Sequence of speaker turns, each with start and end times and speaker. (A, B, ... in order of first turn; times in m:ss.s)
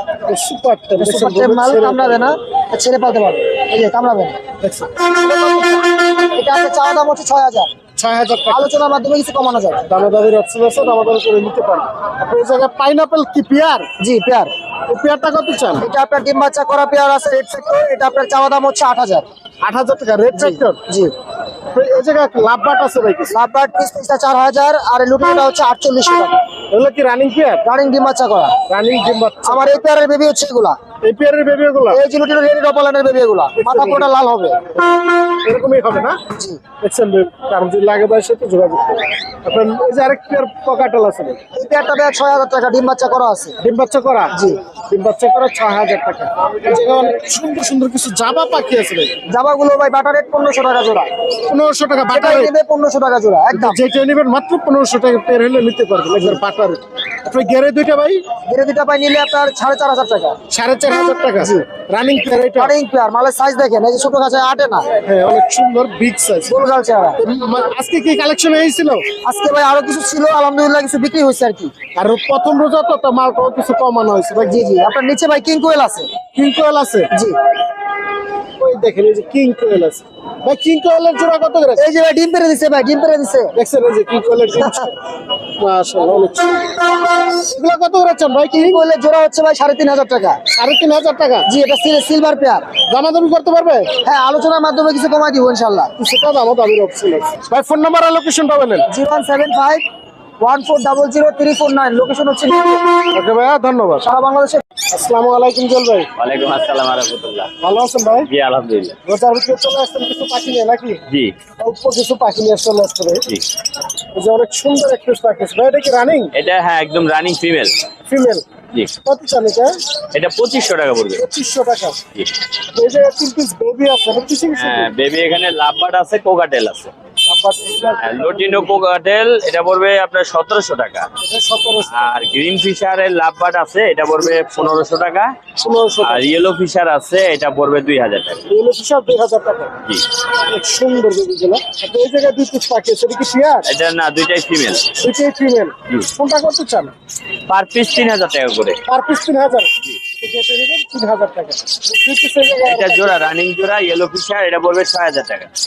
0:00.3-0:02.3 A
0:01.0-0:04.4 B
0:04.6-0:05.8 A
0:05.6-0:07.7 B
0:08.0-0:08.8 A
0:08.5-0:09.8 B
0:09.8-0:13.9 A
0:14.0-0:14.5 B
0:14.9-0:15.9 A
0:15.8-0:19.3 B
0:19.6-0:20.8 A
0:20.3-0:21.1 B
0:21.7-0:23.4 A
0:23.3-0:26.4 B
0:26.7-0:27.7 A
0:27.6-0:28.5 B
0:28.7-0:29.8 A
0:29.4-0:30.8 B
0:31.0-0:32.0 A
0:31.9-0:34.6 B
0:33.6-0:34.1 A
0:34.8-0:36.2 A
0:36.8-0:41.4 A
0:41.5-0:43.6 B
0:43.6-0:49.2 A
0:44.3-0:44.6 B
0:49.3-0:51.1 B
0:51.5-0:52.5 A
0:52.1-0:53.8 B
0:53.5-0:58.2 A
0:58.4-1:00.4 B
1:00.5-1:02.8 A
1:01.4-1:01.6 B
1:02.6-1:04.9 B
1:05.0-1:06.7 A
1:06.4-1:07.2 B
1:07.2-1:09.0 A
1:09.2-1:11.7 B
1:11.9-1:14.7 A
1:14.4-1:16.1 B
1:16.3-1:17.1 A
1:18.6-1:21.9 A
1:21.8-1:23.5 B
1:23.5-1:24.9 A
1:25.6-1:28.8 A
1:28.5-1:30.4 B
1:30.5-1:31.5 A
1:31.4-1:32.7 B
1:32.9-1:33.9 A
1:34.0-1:35.9 B
1:36.0-1:38.9 A
1:38.9-1:39.8 B
1:40.4-1:43.0 B
1:43.1-1:44.1 A
1:44.0-1:44.6 B
1:44.9-1:46.1 A
1:46.2-1:47.5 C
1:47.6-1:48.3 A
1:48.3-1:48.9 C
1:49.0-1:51.0 A
1:51.6-1:53.2 A
1:54.1-1:56.3 A
1:56.3-1:57.7 C
1:58.1-1:58.4 A
1:59.0-1:59.8 A
2:00.1-2:01.2 C
2:01.1-2:02.0 A
2:02.7-2:04.9 A
2:04.6-2:06.9 C
2:07.2-2:08.7 A
2:08.0-2:11.1 C
2:11.2-2:11.9 A
2:11.9-2:15.3 C
2:14.2-2:14.8 A
2:15.6-2:16.4 A
2:16.0-2:18.4 C
2:18.5-2:19.7 A
2:20.5-2:23.7 A
2:23.7-2:24.8 C
2:25.0-2:26.9 A
2:27.5-2:28.8 C
2:28.9-2:33.2 A
2:32.6-2:35.5 C